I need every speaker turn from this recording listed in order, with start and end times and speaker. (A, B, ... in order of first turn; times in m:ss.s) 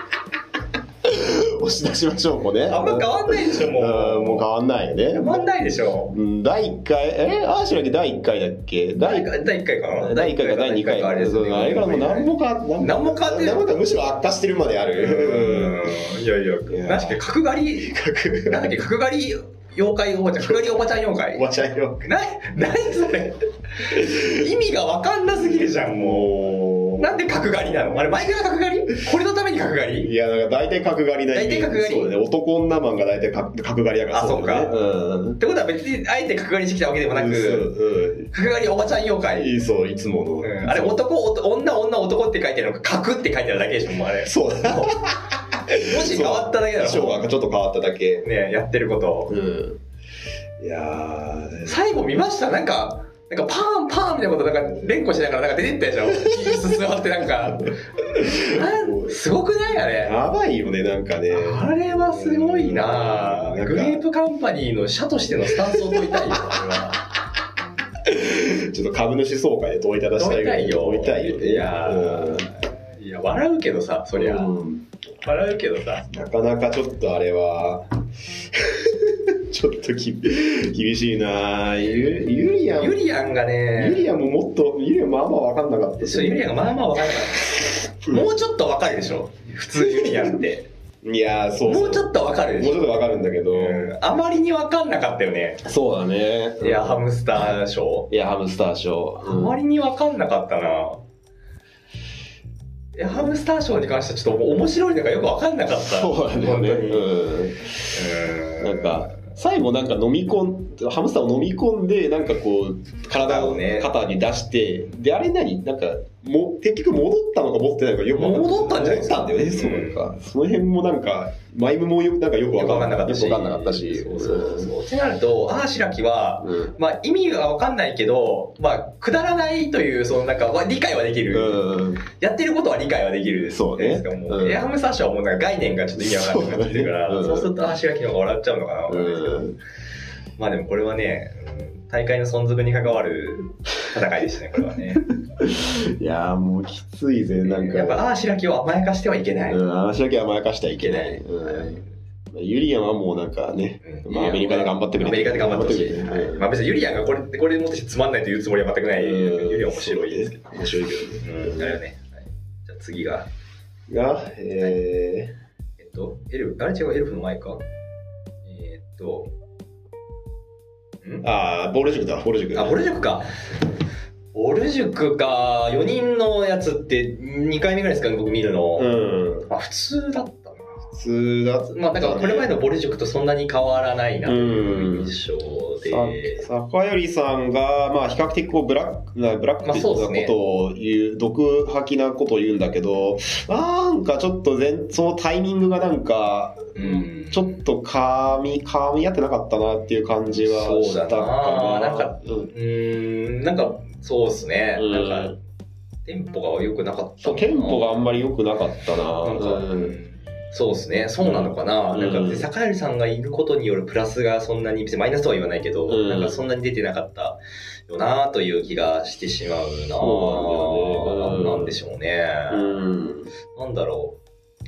0:01.0-0:05.5 A
0:02.7-0:04.5 B
0:05.1-0:06.1 B
0:06.1-0:09.3 A
0:09.0-0:13.6 B
0:09.9-0:15.9 A
0:14.9-0:17.9 B
0:16.7-0:17.2 A
0:17.8-0:18.6 A
0:18.4-0:21.4 B
0:20.4-0:20.6 A
0:21.3-0:22.1 A
0:22.0-0:26.3 B
0:25.9-0:27.2 A
0:27.0-0:30.1 B
0:30.0-0:35.4 A
0:31.3-0:32.1 B
0:34.1-0:34.7 B
0:35.4-0:37.7 B
0:37.1-0:38.3 A
0:38.3-0:39.5 B
0:39.4-0:41.0 A
0:40.4-0:45.1 B
0:44.2-0:48.2 A
0:45.8-0:47.3 B
0:48.2-0:49.3 B
0:49.3-0:49.8 A
0:50.6-0:51.8 A
0:51.6-1:00.2 B
0:56.2-0:56.6 A
0:58.0-0:59.2 A
1:00.0-1:04.0 A
1:01.3-1:07.0 B
1:05.5-1:06.6 A
1:08.0-1:12.5 A
1:10.2-1:14.5 B
1:14.1-1:14.8 A
1:15.2-1:16.1 B
1:16.0-1:23.1 A
1:21.8-1:22.2 B
1:22.8-1:24.0 B
1:23.8-1:26.5 A
1:26.0-1:30.7 B
1:29.8-1:30.4 A
1:31.0-1:33.9 A
1:31.6-1:32.9 B
1:33.5-1:35.6 B
1:35.6-1:37.5 A
1:36.6-1:38.1 B
1:38.1-1:39.6 A
1:39.2-1:41.0 B
1:43.0-1:47.1 B
1:45.8-1:48.0 A
1:47.9-1:49.2 B
1:48.6-2:04.7 A
1:53.1-1:53.9 B
1:58.1-2:00.1 B
2:02.5-2:19.5 B
2:06.4-2:06.7 A
2:11.3-2:12.0 A
2:13.5-2:14.6 A
2:16.0-2:17.5 A
2:18.9-2:19.6 A
2:20.4-2:25.2 B
2:25.4-2:28.0 A
2:27.4-2:29.6 B
2:29.5-2:36.5 A
2:30.8-2:31.8 B
2:33.8-2:40.6 B
2:39.0-2:41.8 A
2:41.2-2:43.3 B
2:43.9-2:45.3 A
2:45.8-2:47.6 B
2:48.4-2:49.3 B
2:51.2-2:52.8 A
2:52.5-2:53.3 B
2:54.3-2:58.9 B
2:58.8-2:59.5 A
2:59.5-3:00.9 B
3:00.9-3:02.5 A
3:01.7-3:06.4 B
3:04.2-3:05.1 A
3:05.8-3:22.5 A
3:09.6-3:10.3 B
3:16.7-3:17.6 B
3:20.4-3:25.4 B
3:24.8-3:25.4 A
3:26.0-3:28.0 B
3:27.2-3:30.0 A
3:29.2-3:42.8 B
3:31.2-3:32.5 A
3:35.9-3:36.4 A
3:40.0-3:41.8 A
3:42.5-3:43.3 A
3:43.5-3:44.2 B